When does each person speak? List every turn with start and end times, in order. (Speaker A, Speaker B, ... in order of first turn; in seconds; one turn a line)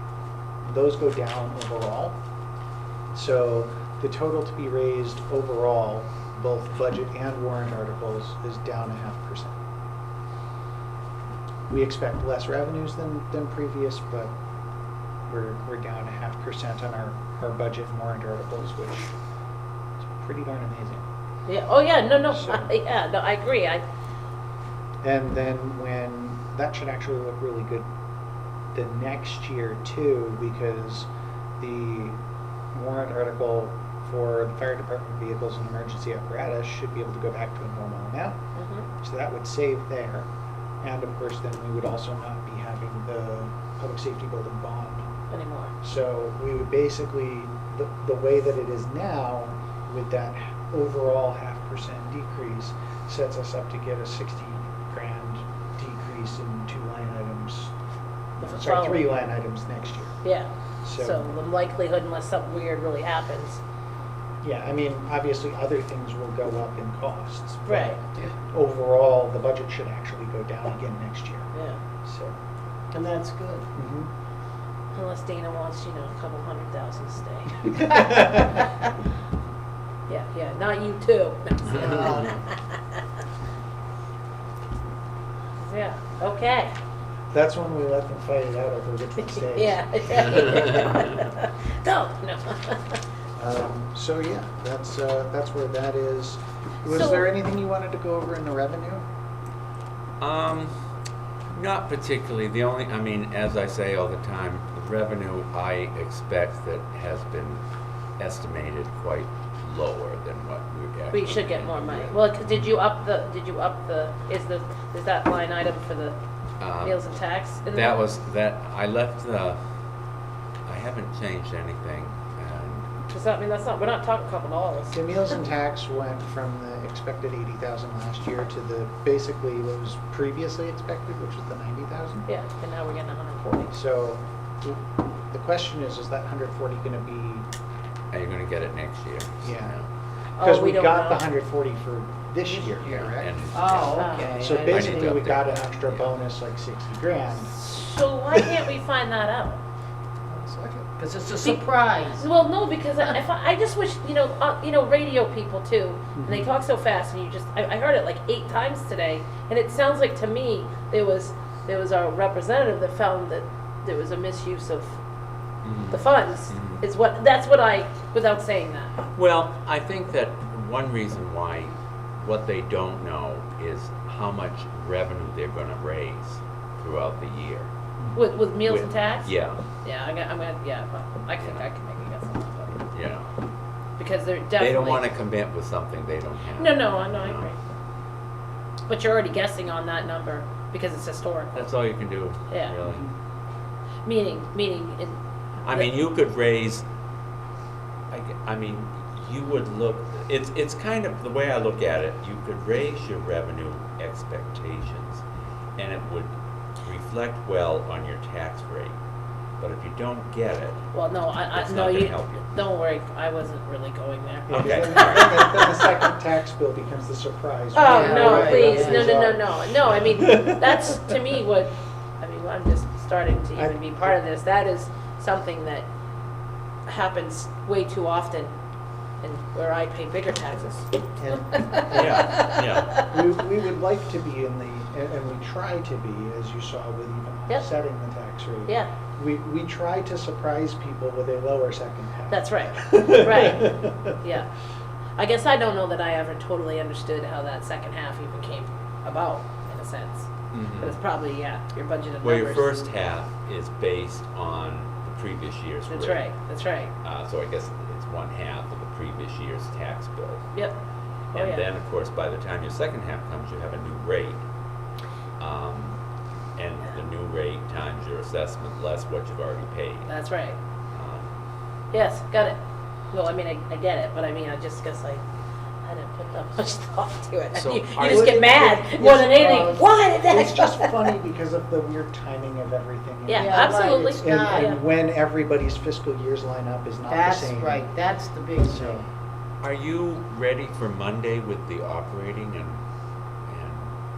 Speaker A: 0.6-2.2
Speaker A: 3.1-9.6
Speaker A: 11.7-14.3
Speaker A: 15.3-19.1
Speaker A: 20.0-21.1
Speaker B: 21.5-23.8
Speaker A: 22.3-22.7
Speaker A: 25.0-27.9
Speaker A: 28.7-31.1
Speaker A: 31.6-32.2
Speaker A: 32.7-38.4
Speaker B: 38.5-38.9
Speaker A: 39.0-40.3
Speaker A: 40.8-45.1
Speaker B: 45.3-45.7
Speaker A: 45.8-57.7
Speaker B: 58.4-59.1
Speaker A: 58.4-60.2
Speaker B: 60.2-63.6
Speaker A: 60.8-61.3
Speaker A: 64.4-71.5
Speaker B: 67.7-68.0
Speaker B: 71.5-71.8
Speaker A: 72.0-72.4
Speaker C: 72.9-73.7
Speaker A: 73.8-74.1
Speaker B: 74.9-78.6
Speaker A: 77.9-78.3
Speaker B: 80.1-83.0
Speaker C: 81.7-82.4
Speaker B: 85.6-86.7
Speaker A: 87.3-90.3
Speaker B: 89.3-93.0
Speaker A: 93.4-99.0
Speaker B: 96.9-97.3
Speaker D: 100.2-100.7
Speaker D: 101.5-107.6
Speaker D: 108.2-112.2
Speaker B: 111.1-116.2
Speaker D: 116.6-117.0
Speaker B: 116.8-118.0
Speaker D: 117.7-119.6
Speaker D: 120.7-122.9
Speaker B: 123.1-125.2
Speaker A: 124.9-132.3
Speaker B: 132.3-133.8
Speaker A: 133.6-137.5
Speaker D: 138.1-139.9
Speaker A: 139.4-139.8
Speaker B: 140.4-141.3
Speaker A: 140.4-147.7
Speaker D: 143.0-146.0
Speaker C: 143.5-145.2
Speaker B: 144.0-144.4
Speaker B: 147.5-149.6
Speaker A: 150.3-150.9
Speaker C: 151.0-152.3
Speaker B: 151.4-165.0
Speaker A: 156.2-156.5
Speaker D: 165.6-166.8
Speaker B: 165.9-168.9
Speaker D: 169.1-177.7
Speaker B: 178.2-179.3
Speaker D: 178.6-179.6
Speaker B: 179.8-182.8
Speaker D: 181.4-181.7
Speaker D: 182.9-183.3
Speaker B: 184.0-185.1
Speaker D: 184.6-187.5
Speaker B: 186.5-187.6
Speaker B: 188.9-191.7
Speaker D: 191.6-193.1
Speaker B: 192.5-192.8
Speaker B: 194.1-195.2
Speaker D: 195.7-196.8
Speaker D: 198.1-205.2
Speaker D: 205.8-209.0
Speaker D: 209.6-210.9
Speaker B: 210.9-215.8
Speaker D: 211.5-212.5
Speaker A: 214.5-221.1
Speaker D: 214.5-215.5
Speaker B: 217.7-225.9
Speaker C: 217.8-219.3
Speaker A: 223.6-224.2
Speaker B: 226.9-228.5
Speaker B: 229.2-233.3
Speaker A: 231.2-244.2
Speaker D: 231.9-232.9
Speaker B: 242.3-244.5
Speaker B: 245.2-252.9
Speaker D: 250.5-251.0
Speaker D: 252.2-256.3
Speaker B: 255.9-256.9
Speaker D: 257.0-260.5
Speaker B: 261.3-261.6
Speaker D: 261.3-264.4
Speaker D: 265.4-266.0
Speaker D: 266.6-270.1
Speaker B: 270.1-270.6
Speaker D: 270.9-271.3
Speaker B: 271.9-272.6
Speaker B: 273.1-275.2
Speaker B: 275.8-281.1
Speaker D: 277.5-278.6
Speaker C: 278.1-279.8
Speaker A: 279.3-287.9
Speaker B: 283.3-284.8
Speaker C: 283.4-284.8
Speaker C: 287.1-289.0
Speaker A: 288.6-289.0
Speaker D: 289.6-292.8
Speaker D: 293.5-293.9